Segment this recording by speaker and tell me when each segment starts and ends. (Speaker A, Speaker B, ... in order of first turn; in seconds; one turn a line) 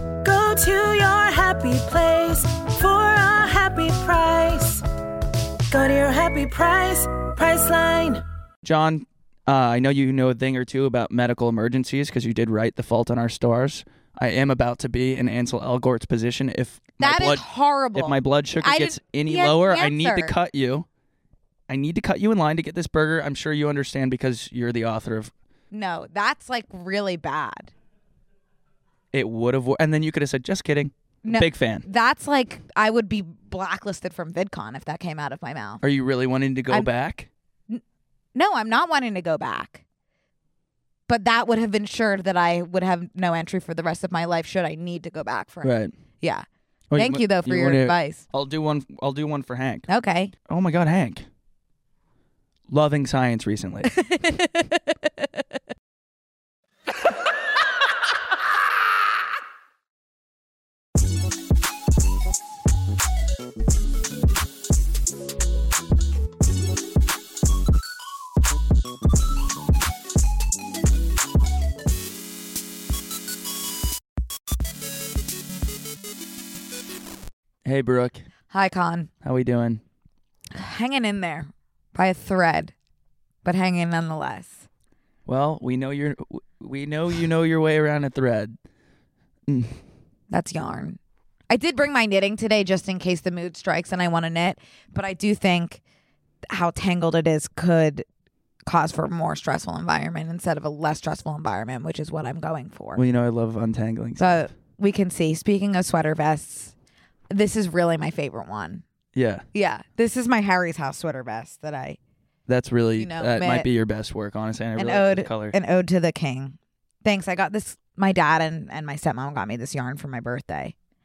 Speaker A: 0.2-4.8
Speaker A: 5.7-8.2
Speaker B: 8.6-20.9
Speaker C: 17.0-20.3
Speaker B: 21.7-25.3
Speaker C: 25.7-27.7
Speaker B: 29.1-31.8
Speaker C: 31.2-35.8
Speaker B: 35.8-37.3
Speaker C: 38.3-39.8
Speaker C: 41.1-48.2
Speaker B: 45.6-45.9
Speaker B: 46.9-49.9
Speaker C: 49.9-50.3
Speaker B: 50.5-51.2
Speaker B: 52.7-53.9
Speaker C: 53.9-54.6
Speaker B: 77.6-78.2
Speaker C: 78.5-79.1
Speaker B: 79.2-79.8
Speaker C: 80.5-82.7
Speaker C: 83.4-84.7
Speaker B: 85.2-88.5
Speaker B: 89.5-89.8
Speaker C: 90.3-91.0
Speaker C: 91.5-95.8
Speaker C: 96.5-98.0
Speaker C: 98.6-103.0
Speaker B: 103.0-104.5
Speaker C: 104.2-106.7
Speaker C: 107.3-108.8
Speaker B: 109.1-109.4
Speaker C: 109.5-112.0
Speaker B: 112.5-115.5
Speaker C: 113.0-113.7
Speaker C: 114.8-120.7